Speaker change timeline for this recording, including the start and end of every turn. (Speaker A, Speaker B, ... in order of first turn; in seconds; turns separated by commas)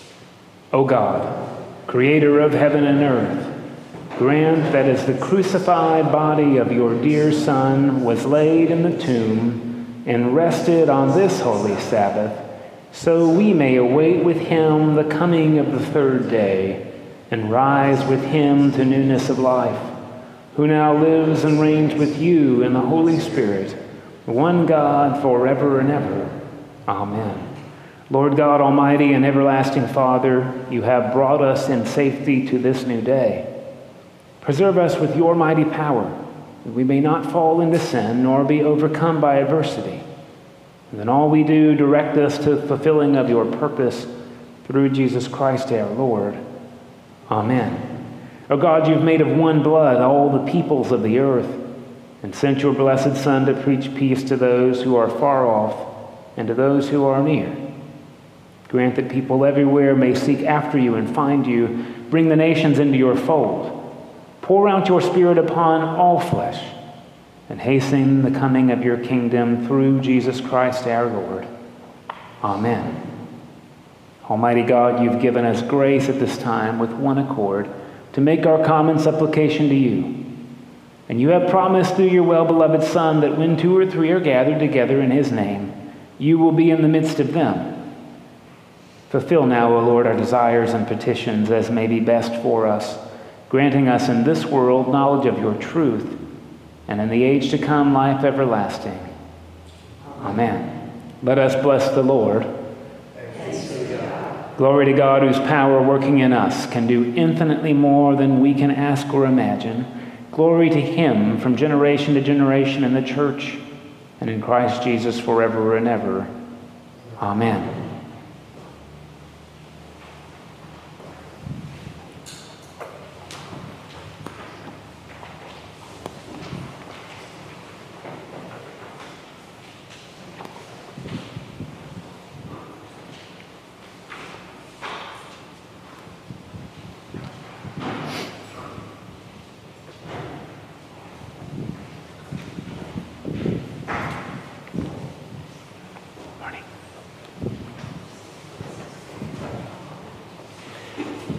Speaker A: 0.7-3.5, Speaker A: 4.2-19.9, Speaker A: 20.5-26.3, Speaker A: 26.9-27.5, Speaker A: 28.1-33.5, Speaker A: 34.4-40.0, Speaker A: 40.9-44.1, Speaker A: 44.6-46.4, Speaker A: 47.3-47.9, Speaker A: 48.5-51.7, Speaker A: 52.2-57.6, Speaker A: 58.7-63.8, Speaker A: 64.4-66.7, Speaker A: 67.5-71.5, Speaker A: 72.4-73.0, Speaker A: 74.2-80.3, Speaker A: 81.1-87.7, Speaker A: 89.1-96.2, Speaker A: 96.9-99.1, Speaker A: 100.2-102.5, Speaker A: 104.5-113.6, Speaker A: 114.2-116.3, Speaker A: 117.2-117.8